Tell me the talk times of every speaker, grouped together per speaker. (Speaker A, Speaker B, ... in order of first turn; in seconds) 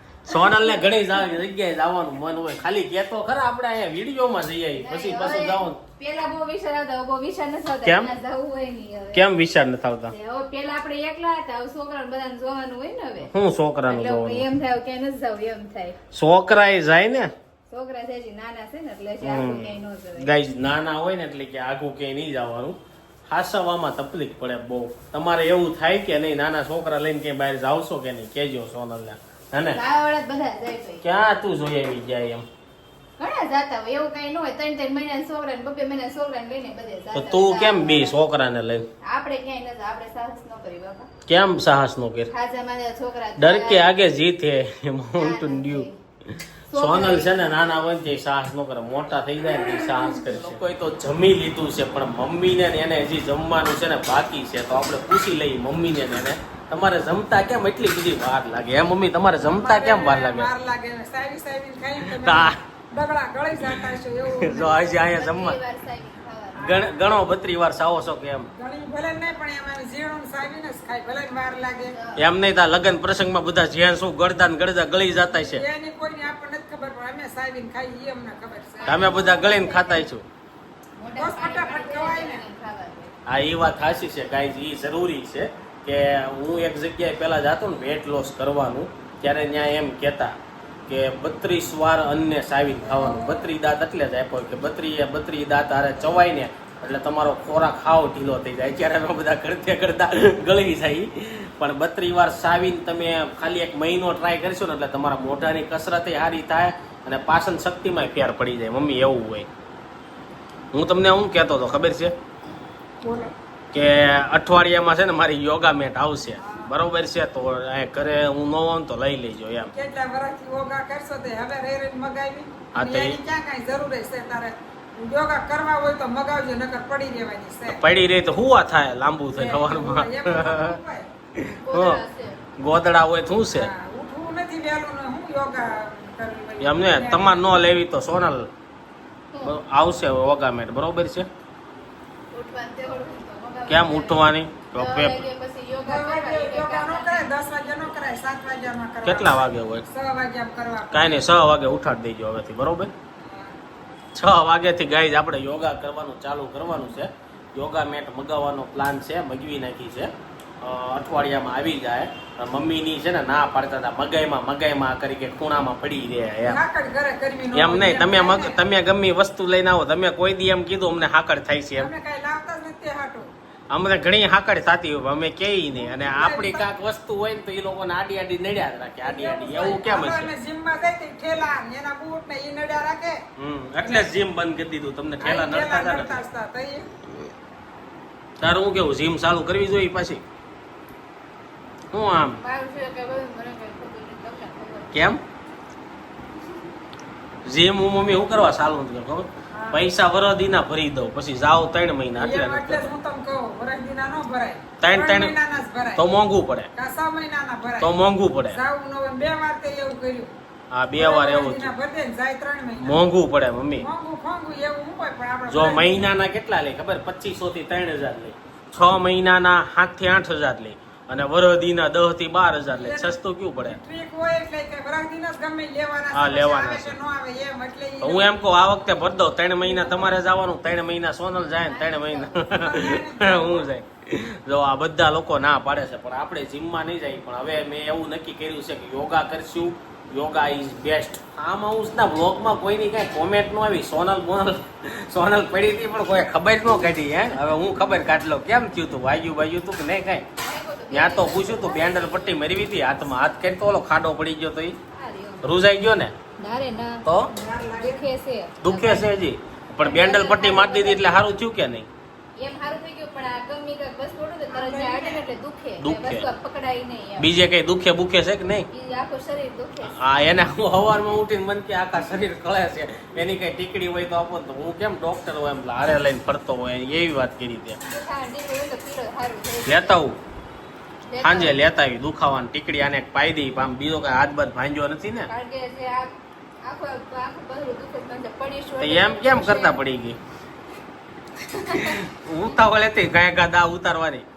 Speaker A: 0.2-5.8, 7.8-8.1, 9.1-10.1, 13.3-14.5, 16.1-17.3, 19.2-22.8, 23.3-29.8, 31.0-32.5, 37.1-38.9, 41.3-42.3, 43.4-60.5, 62.0-62.6, 63.6-65.6, 66.6-68.5, 72.2-75.6, 78.9-80.2, 83.3-90.4, 90.9-109.5, 110.7-112.1, 113.7-119.7, 122.7-123.2, 127.7-130.8, 131.4-132.0, 132.6-133.7, 136.6-138.5, 139.4-141.3, 143.7-145.2, 149.0-149.8, 150.9-152.9, 154.1-166.6, 167.5-171.9, 173.7-180.3, 183.4-186.2, 188.4-190.2, 191.9-192.4, 194.9-195.2, 197.4-202.9, 204.8-205.4, 206.0-206.7, 207.8-208.6, 210.7-211.7, 212.8-213.9, 215.5-223.8, 226.1-227.0, 228.0-250.3, 250.9-254.8, 255.4-256.1, 257.1-257.3, 258.6-261.9, 265.8-266.3, 267.2-268.7, 269.8-277.8, 279.7-280.2, 281.2-285.3, 288.8-290.2, 291.7-294.3
Speaker B: 0.4-0.7, 4.8-9.3, 10.1-13.3, 13.9-16.0, 17.7-20.4, 29.7-31.0, 33.2-38.2, 39.0-41.1, 42.3-43.9, 45.2-46.0, 46.7-47.9, 65.0-67.0, 71.9-72.2, 78.8-80.1, 81.0-83.1, 131.6-132.4, 139.3-139.6, 142.3-147.3, 192.4-194.9, 231.6-232.4, 250.4-253.0, 254.9-255.5, 256.4-257.0, 257.8-259.1, 259.8-261.3, 262.4-267.3, 268.7-270.1, 277.8-280.0, 281.1-281.6, 285.3-289.8, 291.4-292.1
Speaker C: 59.4-65.1, 66.7-67.1, 68.5-72.0, 75.3-79.3, 81.2-82.4, 92.8-93.5, 113.0-113.3, 116.4-116.7, 119.7-127.8, 129.3-131.1, 133.5-137.4, 145.8-151.3, 153.2-153.6, 166.4-168.6, 171.8-173.3, 175.8-176.7, 179.0-183.2, 183.8-184.1, 185.2-187.0, 199.5-199.9, 202.1-206.1, 206.8-207.9, 208.5-210.3, 210.9-213.0, 213.8-216.1, 222.7-228.3, 229.6-230.2, 232.4-233.7, 257.3-258.0, 264.5-265.2